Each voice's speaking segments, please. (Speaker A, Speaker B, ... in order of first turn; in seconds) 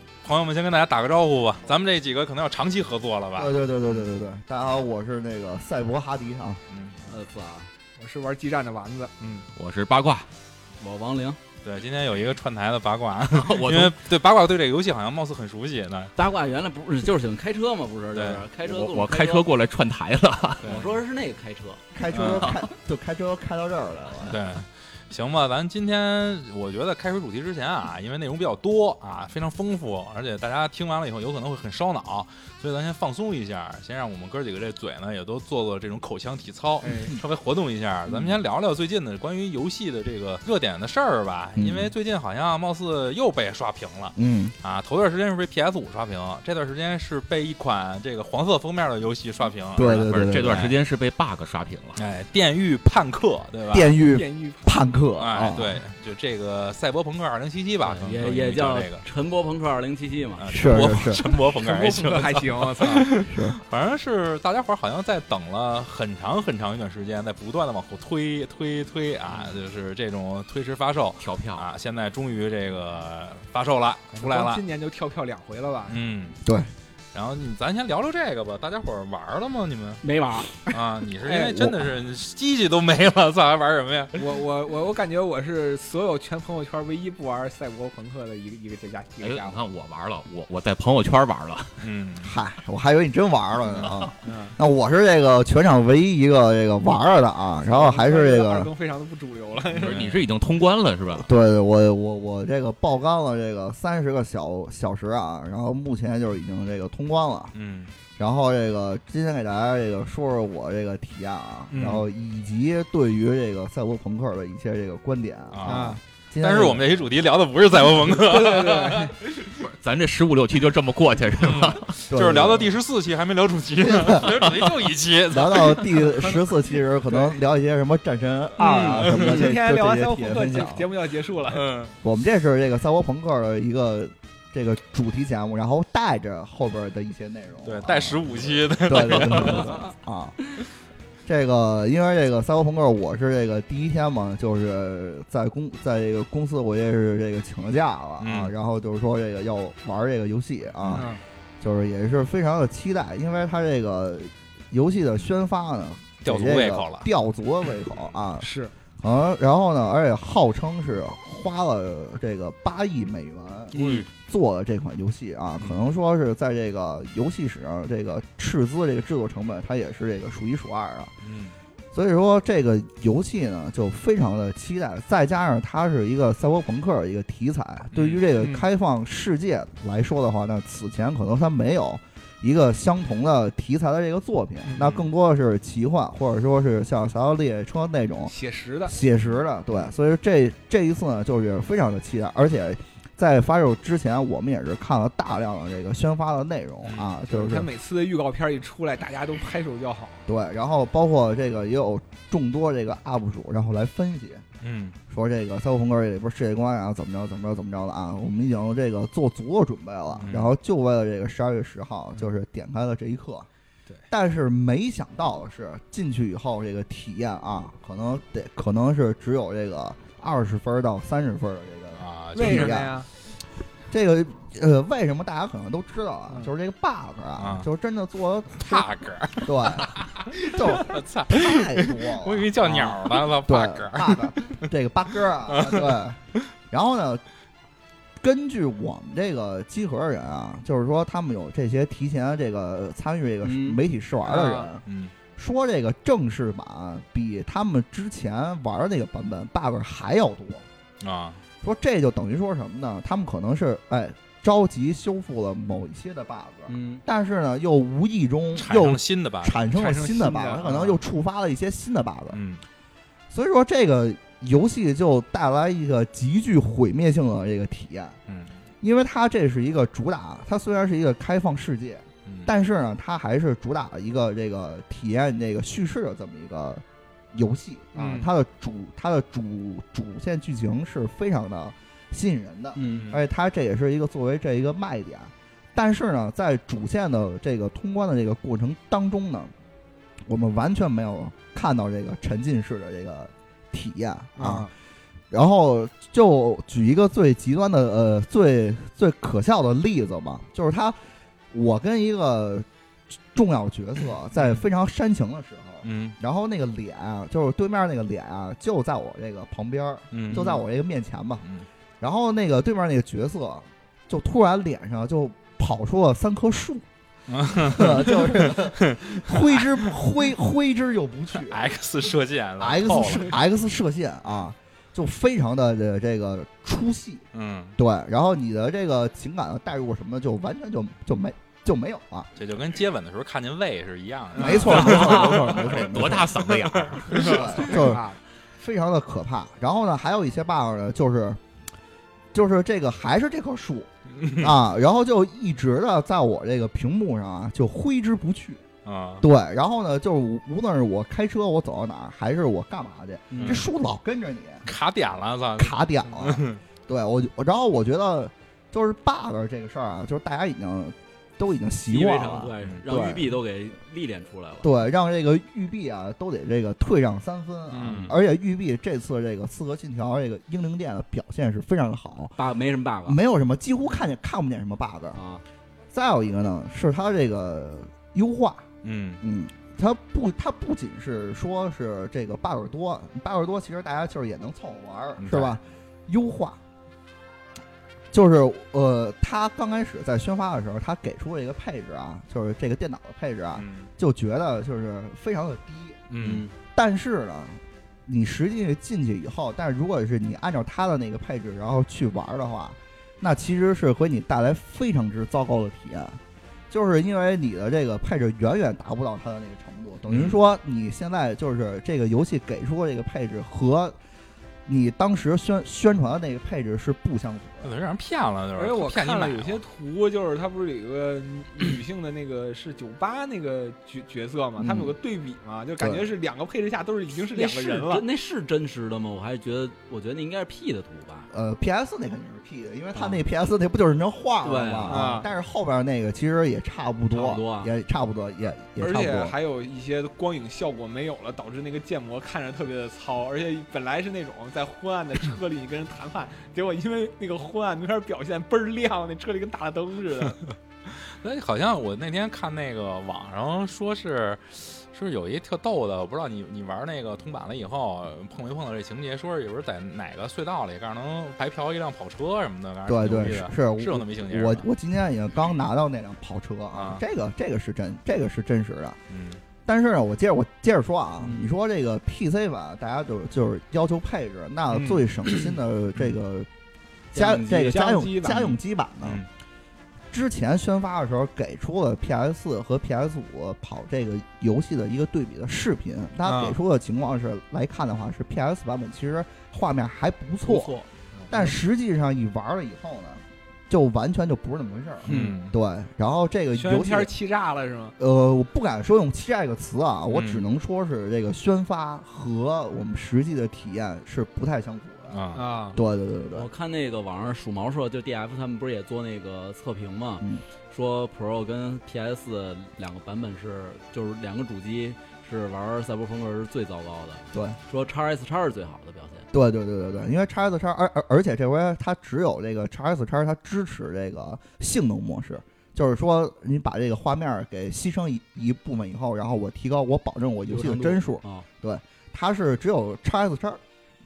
Speaker A: 0.2-4.1, 6.7-7.0, 11.6-16.1, 18.1-18.5, 20.6-20.9, 22.1-22.6, 24.3-50.7, 52.0-53.9, 55.2-59.0, 60.4-74.6, 75.9-76.4, 77.1-80.0, 80.7-84.2, 91.8-92.3, 99.8-100.2, 107.5-107.9, 115.5-119.6, 121.4-126.0, 131.5-131.9, 137.6-139.8, 148.2-148.5, 150.8-151.1, 156.2-157.1, 163.7-164.1, 171.2-171.5, 177.9-178.2, 184.8-185.1, 189.2-189.9, 196.8-197.2, 204.6-205.0, 210.2-210.5, 222.0-222.9, 227.4-227.7, 228.5-234.7, 235.5-236.0, 244.8-245.1, 251.0-251.4, 258.6-259.9, 262.3-262.6, 268.3-268.5, 272.2-272.5, 282.8-283.2, 305.8-306.2, 310.1-310.6, 317.3-319.9, 321.3-323.3, 327.3-327.8, 332.4-337.9, 344.1-344.5, 348.8-349.3, 354.6-356.6, 367.8-368.1, 378.8-379.2, 385.2-385.5, 393.5-393.9, 396.1-396.4, 410.1-410.4, 417.6-419.6, 451.2-464.6, 466.7-467.0, 469.1-469.4, 495.0-495.5, 500.1-500.4, 505.1-505.4
Speaker B: 3.4-6.6, 21.9-24.4, 38.1-38.4, 41.5-41.9, 44.1-44.5, 49.8-50.7, 53.7-55.8, 60.5-61.2, 63.2-63.6, 76.4-76.7, 81.3-81.9, 92.2-98.7, 101.1-107.5, 108.2-116.9, 122.1-122.7, 123.8-124.3, 125.3-130.9, 132.0-140.5, 141.2-151.1, 151.6-158.5, 159.0-171.1, 171.9-188.3, 188.8-197.7, 200.3-204.4, 205.1-213.5, 214.1-222.9, 223.9-237.2, 238.2-244.8, 245.3-250.7, 251.6-262.4, 263.3-268.2, 268.8-289.5, 290.3-294.7, 295.3-301.0, 301.5-302.7, 303.3-311.4, 312.0-316.8, 317.5-321.8, 322.6-327.2, 327.8-332.3, 334.4-336.3, 337.1-338.1, 338.6-341.4, 342.3-348.6, 349.2-354.7, 355.6-363.4, 364.6-372.4, 373.0-375.2, 375.9-378.7, 379.2-386.6, 388.1-396.0, 396.7-414.0, 414.6-417.8, 424.6-424.9, 425.8-426.1, 431.3-439.4, 462.9-469.0, 469.6-476.5, 477.1-479.2, 480.1-490.8, 491.3-497.1, 498.0-506.5, 517.3-517.6, 519.3-533.6
Speaker C: 7.0-7.7, 10.8-11.4, 16.1-19.5, 20.6-21.8, 57.8-60.5, 80.0-80.5, 128.6-129.5, 163.7-164.1, 243.4-243.8, 256.7-257.0, 282.7-283.1, 353.3-353.6, 361.9-364.7, 372.4-373.2, 375.1-375.4, 396.2-396.5, 427.3-431.3, 432.9-433.2, 434.4-435.0, 437.1-437.7, 471.2-471.5, 490.4-490.9, 495.1-495.3, 506.3-519.3, 530.5-531.5
Speaker D: 8.0-9.4, 36.8-37.1, 53.9-54.8, 61.5-63.1, 74.1-76.0, 84.2-89.6, 94.2-94.5, 97.7-100.0, 111.7-112.0, 115.7-116.0, 117.8-119.1, 126.0-126.5, 127.1-127.4, 128.6-131.7, 150.9-151.2, 158.4-158.7, 178.3-178.7, 188.3-189.0, 197.3-200.2, 222.3-223.1, 244.2-244.7, 259.8-260.9, 277.9-278.3, 294.4-294.7, 334.3-335.3, 337.1-338.2, 418.6-428.1, 434.9-435.3, 438.8-450.4, 474.7-475.4, 477.1-478.5, 486.2-486.6, 491.2-491.5, 496.5-497.9, 505.3-505.8
Speaker E: 9.5-10.3, 13.3-14.0, 18.6-20.8, 22.4-22.6, 49.8-52.0, 71.2-71.7, 89.2-91.8, 99.8-101.3, 119.6-122.0, 335.0-337.4